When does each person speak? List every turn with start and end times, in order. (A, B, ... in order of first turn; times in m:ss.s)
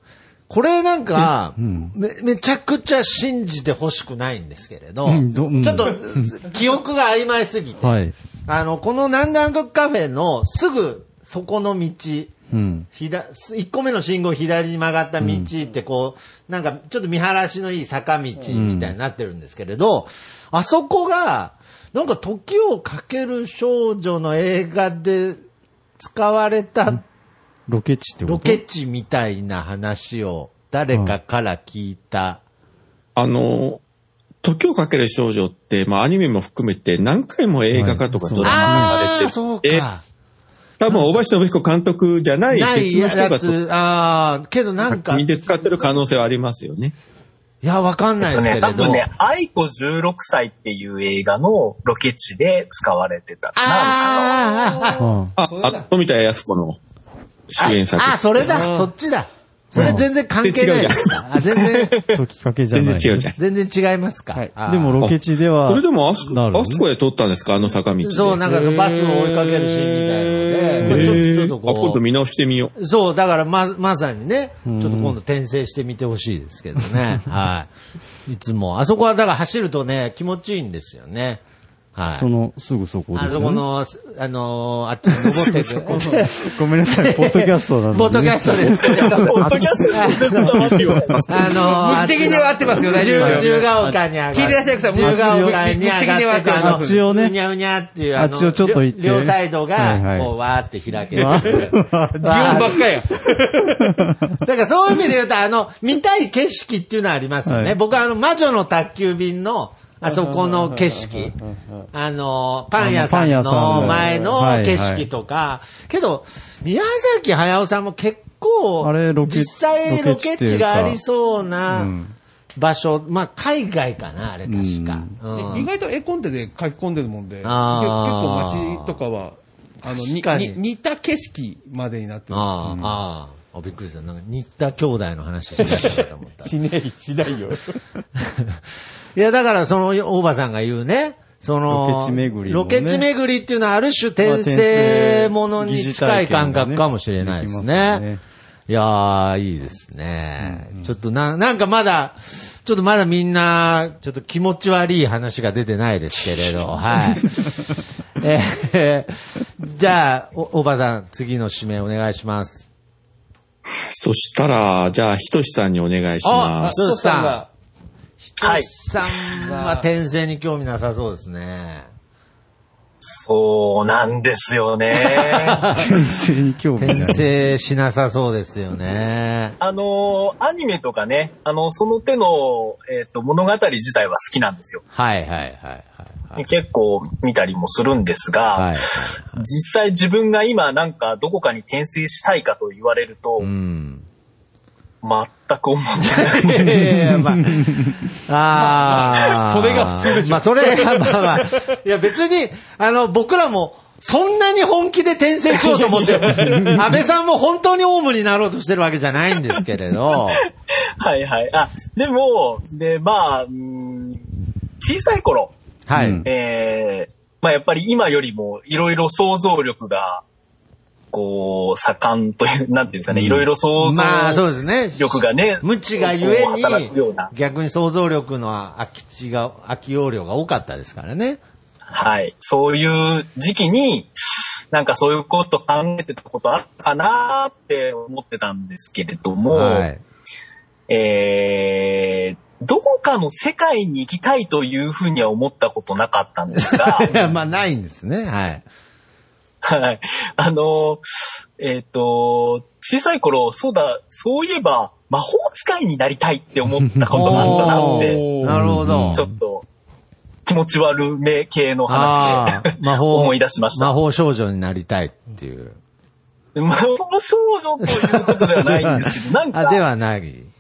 0:00.5-0:12.4 A
0:01.6-0:02.0 B
0:05.1-0:06.3 B
0:07.8-0:08.1 B
0:12.5-0:12.9 B
0:12.9-0:25.4 A
0:15.2-0:15.5 B
0:18.5-0:19.0 B
0:26.0-0:27.0 A
0:27.7-0:28.6 B
0:28.3-0:32.4 A
0:30.9-0:31.2 B
0:33.2-0:33.8 C
0:34.4-0:39.8 C
0:37.7-0:39.0 B
0:38.4-0:40.0 A
0:40.8-0:43.6 C
0:40.9-0:41.2 A
0:42.5-0:45.2 A
0:44.9-0:46.9 C
0:47.6-0:49.1 A
0:48.2-0:54.4 D
0:53.6-0:55.1 A
0:55.0-0:55.3 B
0:55.4-0:56.8 C
0:55.4-0:55.8 E
0:57.5-0:58.5 C
0:57.6-1:02.0 A
0:58.4-0:58.9 E
0:59.7-1:00.0 B
0:59.8-1:01.2 C
1:02.1-1:03.3 B
1:02.7-1:03.4 C
1:03.4-1:05.0 A
1:04.6-1:06.8 B
1:05.0-1:08.4 C
1:08.0-1:12.0 A
1:08.5-1:09.2 E
1:10.8-1:12.7 C
1:10.8-1:11.2 B
1:12.8-1:17.7 A
1:14.7-1:15.2 B
1:18.3-1:21.4 A
1:22.0-1:22.3 A
1:22.1-1:23.6 B
1:23.1-1:43.0 A
1:25.1-1:31.0 B
1:25.9-1:26.2 E
1:28.8-1:31.6 D
1:31.6-1:37.3 E
1:33.2-1:34.0 B
1:35.0-1:35.6 B
1:36.6-1:37.3 B
1:38.1-1:40.3 B
1:41.1-1:42.7 B
1:41.2-1:41.6 E
1:42.2-1:43.9 E
1:43.8-1:44.4 B
1:44.4-1:51.4 A
1:47.5-1:47.8 B
1:50.1-1:51.1 E
1:51.9-2:01.9 A
1:52.8-1:55.1 B
1:53.7-1:54.3 E
1:58.8-2:01.0 B
2:01.7-2:02.2 B
2:02.6-2:05.7 A
2:04.5-2:05.2 B
2:05.3-2:12.7 E
2:07.4-2:09.0 A
2:09.8-2:10.6 A
2:12.3-2:16.5 A
2:12.6-2:13.0 B
2:15.6-2:17.8 E
2:18.2-2:18.6 A
2:19.2-2:28.0 A
2:21.7-2:23.1 B
2:24.2-2:28.2 B
2:28.7-2:37.6 A
2:30.4-2:31.0 B
2:38.2-2:42.7 A
2:43.7-2:46.8 C
2:46.2-2:47.4 A
2:46.6-2:47.5 E
2:48.2-2:51.9 A
2:48.4-2:48.7 D
2:49.3-2:49.9 E
2:53.0-2:55.6 D
2:55.0-2:56.0 A
2:55.7-2:57.3 B
2:56.8-2:59.6 A
2:59.6-3:04.8 D
3:04.9-3:06.5 A
3:06.4-3:08.8 D
3:08.6-3:09.4 A
3:09.3-3:13.5 D
3:13.4-3:14.1 A
3:15.0-3:16.8 D
3:16.0-3:30.4 A
3:16.8-3:18.0 B
3:18.6-3:21.6 E
3:25.5-3:26.4 D
3:26.0-3:26.7 E
3:31.0-3:34.3 D
3:34.8-3:35.5 D
3:35.9-3:36.3 A
3:36.0-3:36.3 B
3:36.2-3:40.2 D
3:41.1-3:44.4 D
3:43.8-3:51.4 A
3:45.0-3:47.3 D
3:51.9-3:54.1 D
3:54.7-3:59.9 D
3:59.5-4:00.0 A
4:00.9-4:07.1 D
4:06.6-4:08.7 A
4:09.6-4:11.0 D
4:11.6-4:18.2 D
4:16.8-4:17.6 B
4:17.1-4:19.2 A
4:17.6-4:18.7 E
4:18.4-4:19.3 B
4:19.1-4:19.7 D
4:20.5-4:24.0 D
4:21.9-4:25.8 A
4:26.6-4:29.8 D
4:27.9-4:30.5 A